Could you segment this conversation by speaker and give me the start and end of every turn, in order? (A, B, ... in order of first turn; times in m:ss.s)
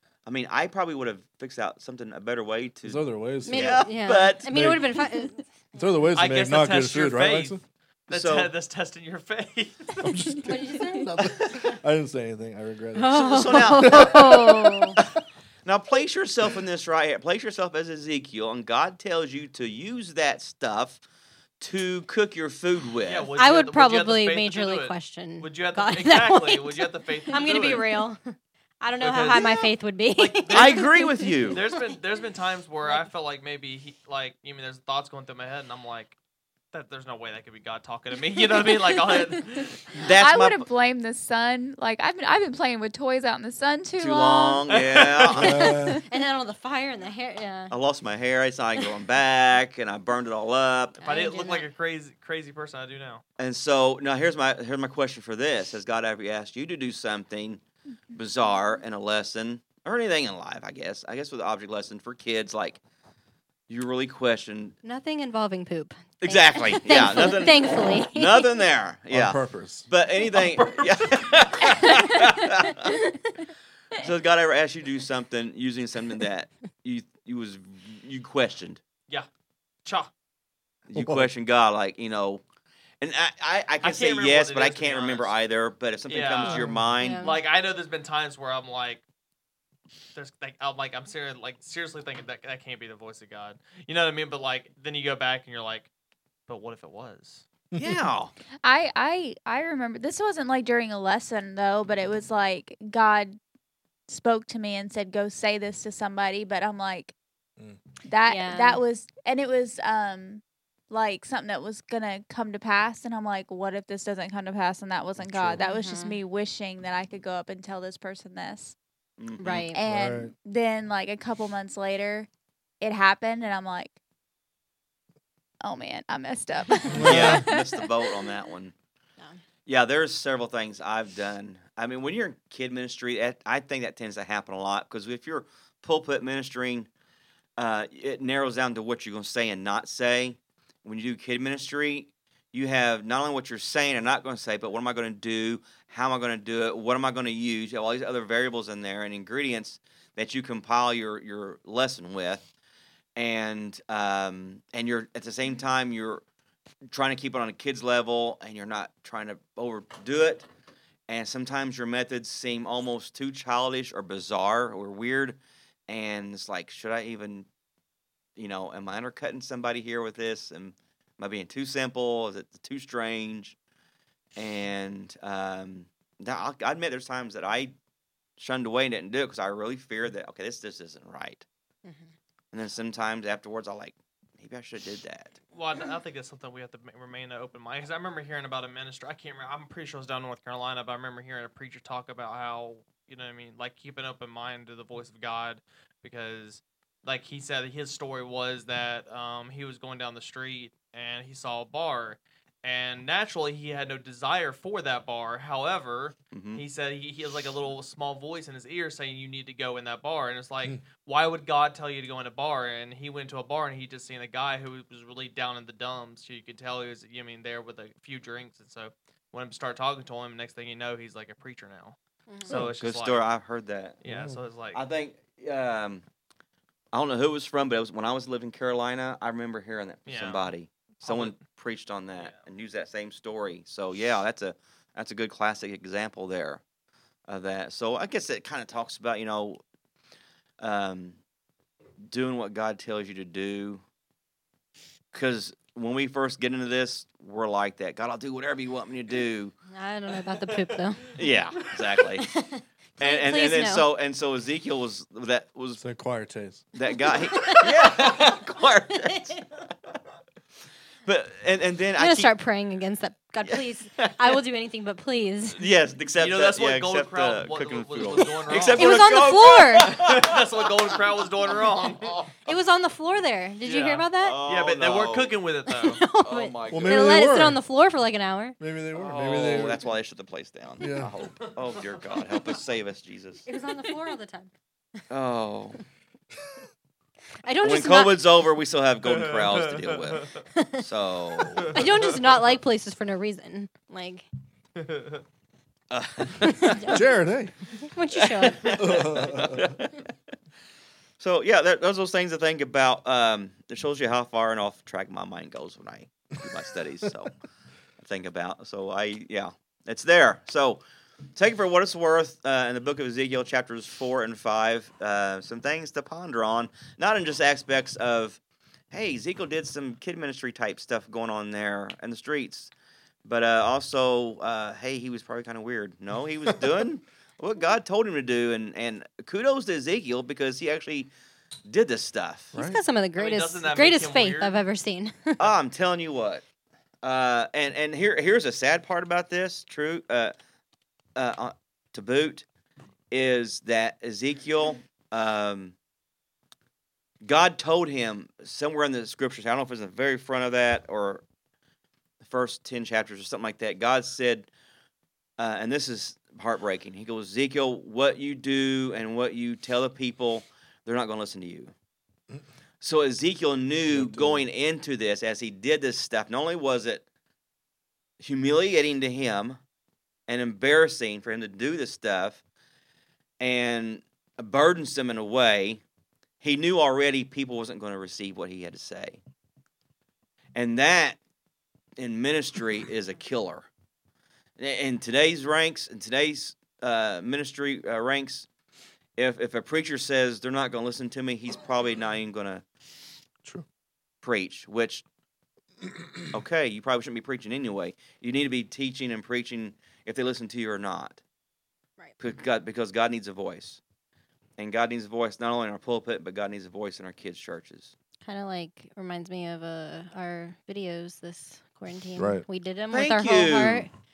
0:00.3-0:04.5 A
0:02.8-0:03.9 B
0:03.4-0:05.5 C
0:04.5-0:04.8 B
0:05.7-0:07.6 B
0:06.2-0:07.6 D
0:08.1-0:08.5 A
0:08.1-0:10.0 D
0:10.0-0:14.0 B
0:10.4-0:11.1 C
0:11.2-0:11.5 A
0:13.0-0:15.0 C
0:13.1-0:14.5 A
0:15.6-0:21.0 A
0:21.6-0:23.3 A
0:23.0-0:28.0 D
0:23.4-0:31.9 C
0:29.0-0:36.1 D
0:30.5-0:31.6 A
0:36.7-0:39.9 D
0:40.0-0:40.7 A
0:40.1-0:44.6 E
0:44.0-0:45.8 A
0:44.7-0:45.3 D
0:45.3-0:46.0 B
0:45.4-0:47.7 C
0:47.7-0:51.0 A
0:51.0-0:51.7 C
0:51.0-0:53.2 D
0:53.4-0:57.6 A
0:58.1-1:02.8 A
1:03.7-1:04.8 A
1:04.8-1:08.5 C
1:06.2-1:13.0 A
1:09.1-1:09.9 B
1:10.2-1:12.0 D
1:14.0-1:18.8 A
1:19.8-1:20.1 D
1:20.9-1:22.4 A
1:20.9-1:21.3 B
1:23.0-1:27.2 A
1:23.8-1:25.4 D
1:26.1-1:29.0 D
1:26.4-1:27.0 B
1:27.0-1:27.4 C
1:30.1-1:35.9 D
1:36.5-1:37.4 D
1:37.8-1:38.3 A
1:38.6-1:43.4 E
1:44.1-1:47.1 E
1:48.1-1:58.8 E
1:48.3-1:48.8 C
1:55.2-1:55.6 B
1:55.6-1:56.2 C
1:59.2-1:59.7 A
1:59.4-1:59.8 C
1:59.7-2:02.3 E
1:59.9-2:00.3 B
2:02.8-2:04.0 E
2:05.6-2:07.8 E
2:06.8-2:07.1 C
2:06.9-2:07.4 B
2:07.0-2:08.7 A
2:09.7-2:16.9 A
2:17.6-2:32.5 A
2:33.2-2:36.2 A
2:36.9-2:40.5 A
2:41.1-2:47.5 A
2:48.4-2:53.6 A
2:54.4-2:57.7 A
2:58.4-3:01.4 A
3:01.8-3:02.1 C
3:02.5-3:05.4 A
3:05.5-3:43.2 D
3:26.3-3:26.6 A
3:42.3-3:42.6 C
3:42.5-3:44.0 A
3:44.0-3:44.8 D
3:44.0-3:44.4 B
3:44.7-3:46.0 A
3:46.9-3:56.6 A
3:50.1-3:51.4 D
3:57.3-3:59.6 A
4:00.6-4:01.2 A
4:02.0-4:03.8 A
4:05.1-4:09.5 A
4:09.7-4:11.2 C
4:10.4-4:10.8 D
4:11.2-4:12.3 A
4:12.1-4:13.9 C
4:13.0-4:15.8 A
4:15.8-4:16.6 B
4:16.7-4:19.4 A
4:17.1-4:18.1 C
4:21.1-4:22.3 A
4:22.0-4:25.6 C
4:23.4-4:24.4 A
4:25.5-4:30.8 A
4:26.2-4:29.0 D
4:28.7-4:29.9 C
4:29.9-4:32.2 D
4:31.5-4:32.3 A
4:32.4-4:34.4 C
4:33.6-4:36.0 D
4:34.2-4:35.4 A
4:35.7-4:38.6 C
4:36.2-4:37.1 A
4:36.7-4:37.6 B
4:38.6-4:39.8 B
4:38.9-4:43.5 A
4:40.8-4:41.1 B
4:43.5-4:44.5 C
4:45.1-4:45.8 A
4:47.4-4:48.2 C
4:47.6-4:51.7 A
4:49.0-4:50.4 D
4:50.6-4:50.8 C
4:51.6-4:54.2 C
4:51.7-4:52.0 D
4:54.8-4:55.2 D
4:55.9-4:56.9 A
4:56.5-4:57.0 C
4:56.9-4:57.7 B
4:57.8-4:59.0 C
4:58.1-5:00.1 A
4:58.7-4:59.7 B
5:01.2-5:07.3 A
5:08.0-5:10.8 A
5:11.4-5:18.4 A
5:18.9-5:22.7 A
5:23.2-5:31.1 A
5:31.7-5:32.6 A
5:32.5-5:32.8 B
5:32.6-5:35.5 C
5:33.1-5:34.6 D
5:35.4-5:36.4 A
5:37.0-5:40.3 A
5:41.2-5:42.5 A
5:43.1-5:45.8 A
5:47.2-5:51.2 A
5:52.2-5:54.5 A
5:55.4-6:01.7 A
6:02.8-6:07.0 A
6:03.9-6:04.5 B
6:08.2-6:09.6 A
6:10.3-6:12.4 A
6:13.4-6:15.8 A
6:16.4-6:19.2 A
6:20.6-6:21.2 A
6:22.0-6:23.7 A
6:24.6-6:28.5 A
6:29.2-6:32.6 A
6:34.2-6:35.0 A
6:36.3-6:41.2 A
6:42.2-6:43.8 A
6:44.6-6:47.9 A
6:48.2-6:53.9 C
6:52.2-6:52.4 B
6:52.9-6:53.9 A